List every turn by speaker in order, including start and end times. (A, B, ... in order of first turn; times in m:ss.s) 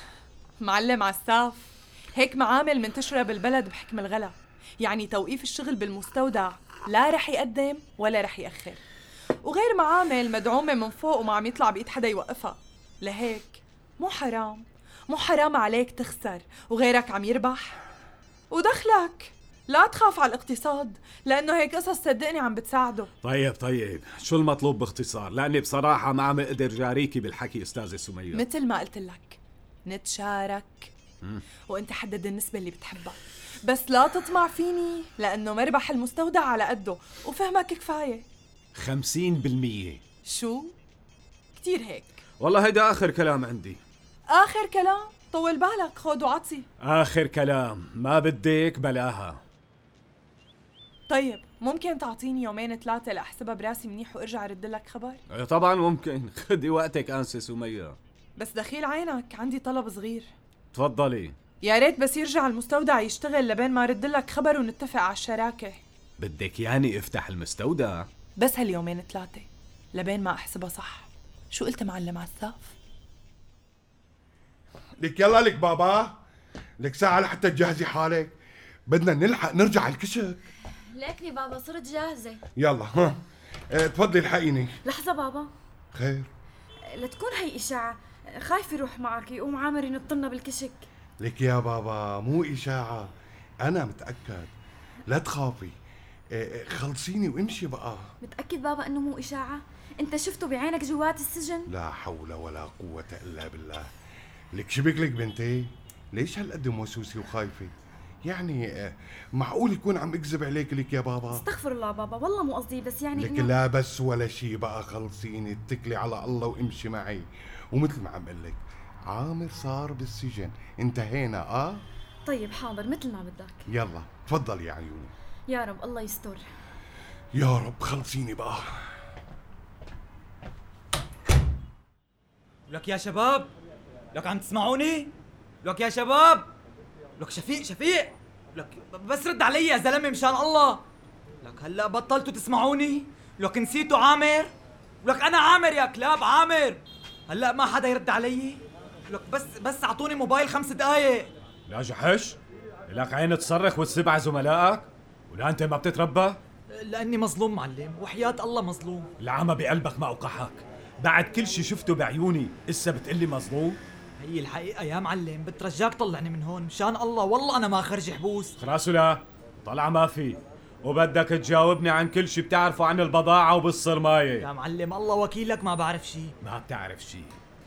0:00.6-0:08.8 A
0:09.4-0:17.8 A
0:18.5-0:23.1 A
0:23.2-0:28.4 B
0:28.3-0:30.9 A
0:31.7-0:38.3 A
0:38.7-0:40.0 B
0:40.2-0:40.8 A
0:41.6-0:42.2 A
0:42.4-0:43.8 B
0:44.3-0:46.7 A
0:46.8-0:49.4 B
0:51.1-0:55.2 A
0:55.3-0:58.0 B
0:58.4-1:00.3 A
1:00.7-1:01.4 B
1:01.6-1:05.8 A
1:06.2-1:08.1 B
1:08.4-1:12.7 A
1:15.0-1:16.2 C
1:16.8-1:18.3 C
1:18.9-1:20.4 C
1:20.9-1:22.4 D
1:22.6-1:24.8 C
1:24.8-1:25.5 D
1:25.9-1:26.3 C
1:26.8-1:30.8 D
1:31.2-1:33.1 C
1:33.6-1:34.5 C
1:35.1-1:35.7 C
1:36.3-1:38.1 C
1:38.2-1:41.7 D
1:41.7-1:43.9 C
1:44.6-1:47.7 C
1:48.2-1:51.5 C
1:51.3-1:53.5 D
1:53.2-2:01.8 C
2:02.2-2:03.6 D
2:03.7-2:05.1 C
2:05.5-2:06.5 D
2:07.3-2:08.7 C
2:12.7-2:13.5 E
2:14.1-2:16.5 E
2:17.2-2:20.8 E
2:21.4-2:31.3 E
2:31.7-2:32.4 B
2:32.9-2:36.4 B
2:36.8-2:39.1 E
2:39.2-2:43.8 B
2:44.2-2:48.5 E
2:48.6-2:54.5 B
2:54.4-2:56.3 E
2:56.4-2:57.4 B